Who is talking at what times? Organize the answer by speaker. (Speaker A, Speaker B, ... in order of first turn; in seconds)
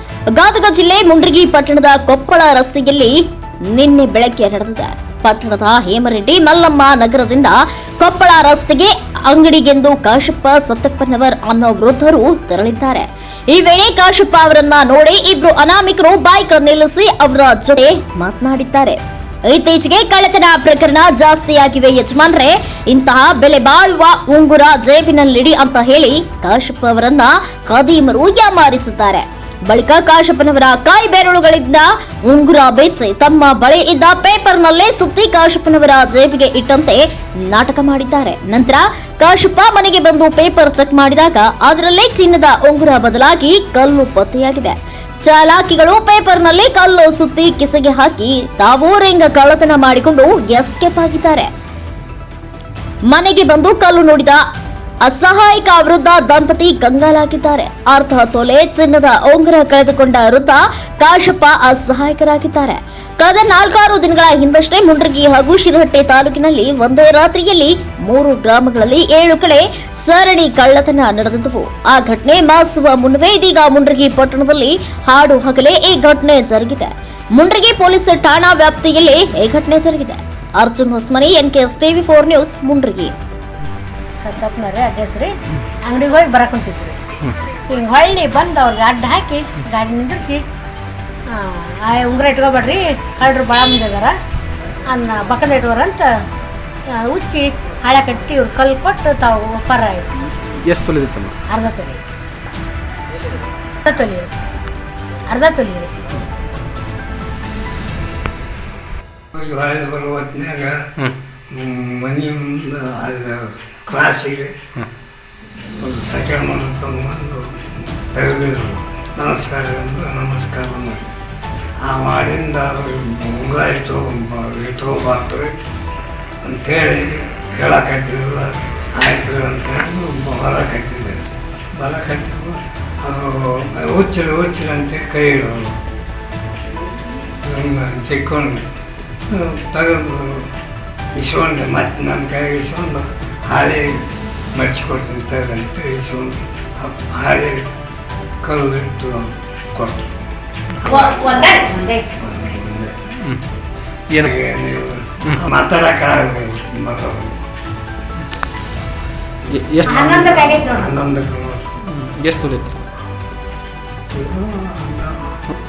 Speaker A: 0.3-3.1, 3.7-51.5, 53.1-54.4, 55.0-83.1
Speaker B: 84.2-85.3, 85.8-87.0, 87.7-90.5, 91.3-94.1, 94.9-96.1, 96.9-100.1, 101.5-102.0, 103.8-104.3, 105.3-105.9, 150.8-152.0, 159.8-160.9
Speaker C: 100.4-101.3, 154.1-154.3, 159.5-160.1, 161.8-162.8
Speaker D: 109.3-110.8, 111.5-114.5, 115.8-121.1, 121.8-125.5, 126.4-135.8, 137.4-138.7, 139.3-140.5, 141.1-147.7, 148.4-150.1, 150.8-152.9, 154.2-157.4, 159.8-161.8, 164.1-165.3